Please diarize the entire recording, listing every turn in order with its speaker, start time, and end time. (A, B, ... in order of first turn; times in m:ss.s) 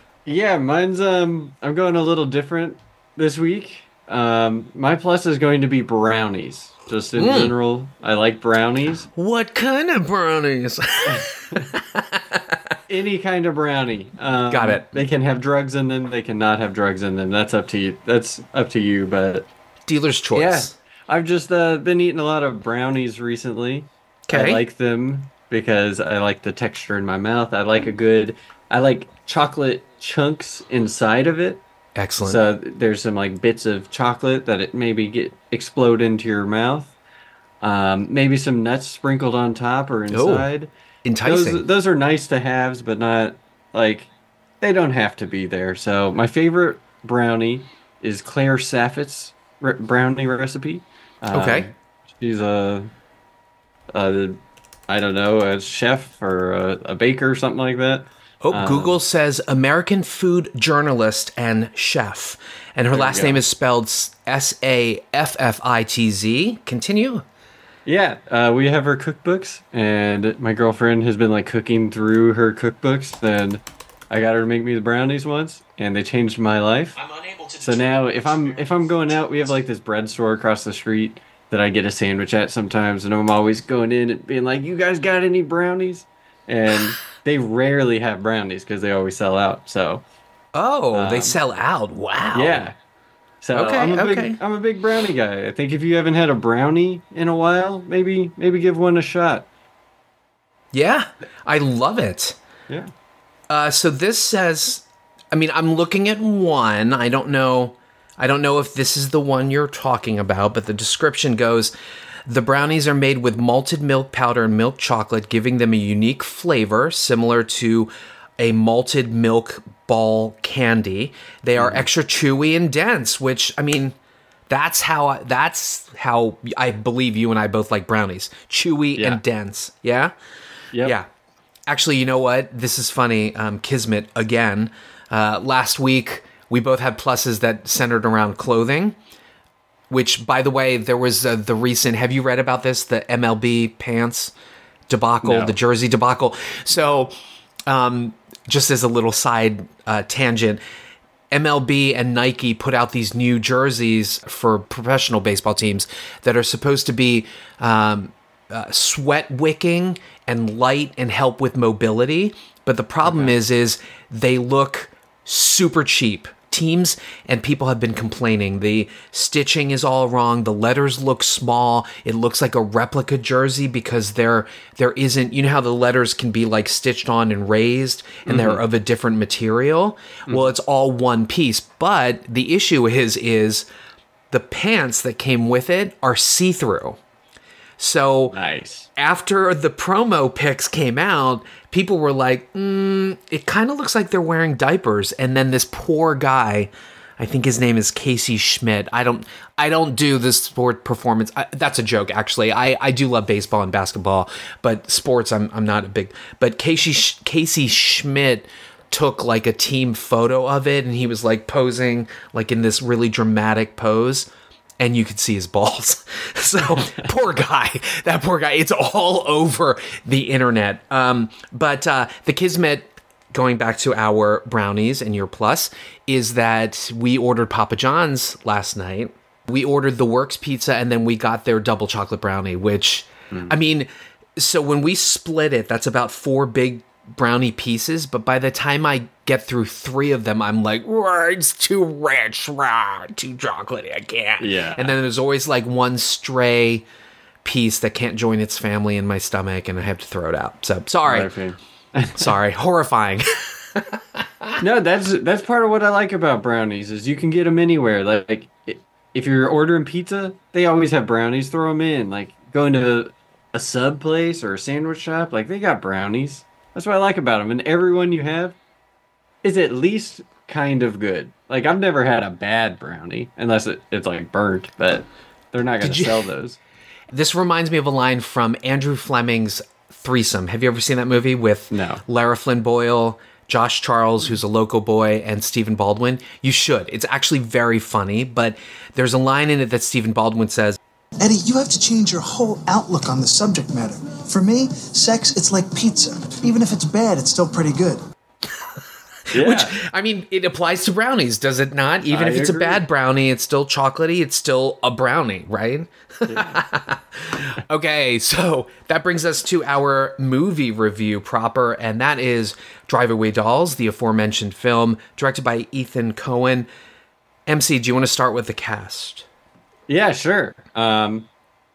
0:00.2-0:09.1 A
0:07.2-0:07.5 B
0:09.2-0:12.7 B
0:11.1-0:11.7 A
0:12.9-0:19.5 A
0:14.5-0:15.0 B
0:19.9-0:20.7 B
0:20.3-0:31.6 A
0:24.3-0:24.6 B
0:32.0-0:32.4 B
0:32.2-0:36.9 A
0:37.6-0:40.7 A
0:40.1-0:40.5 B
0:41.0-0:41.6 B
0:41.2-0:44.1 A
0:44.6-0:52.9 A
0:51.3-0:51.7 B
0:53.9-0:59.0 A
0:58.4-1:07.2 B
1:02.9-1:03.4 A
1:07.8-1:17.0 A
1:17.0-1:18.7 B
1:17.6-1:30.0 A
1:30.5-1:32.7 B
1:30.9-1:31.4 A
1:32.3-1:32.7 A
1:33.4-1:39.5 A
1:33.5-1:34.4 B
1:40.7-1:42.4 B
1:43.5-1:51.7 B
1:52.3-2:04.0 B
2:01.6-2:01.8 A
2:04.5-2:10.1 B
2:11.7-2:19.0 B
2:19.9-2:24.3 B
2:24.9-2:27.1 B
2:25.2-2:25.5 A
2:27.7-2:30.6 B
2:31.3-3:03.7 B
2:43.0-2:43.3 A
2:58.2-2:58.6 A
3:00.3-3:00.5 A
3:04.3-3:07.0 B
3:07.8-3:08.3 B
3:08.3-3:08.9 A
3:09.0-4:06.8 B
3:36.7-3:37.0 A
4:04.4-4:04.9 A
4:07.4-4:11.3 B
4:11.0-4:12.3 A
4:12.2-4:14.6 B
4:14.6-4:28.6 A
4:29.4-4:36.6 A
4:35.8-4:36.2 B
4:37.1-4:50.8 B
4:41.7-4:42.0 A
4:51.2-4:58.0 C
4:59.3-4:59.8 A
4:59.3-5:16.7 B
5:02.0-5:02.8 A
5:06.3-5:06.6 A
5:17.5-5:19.2 B
5:19.9-5:21.3 A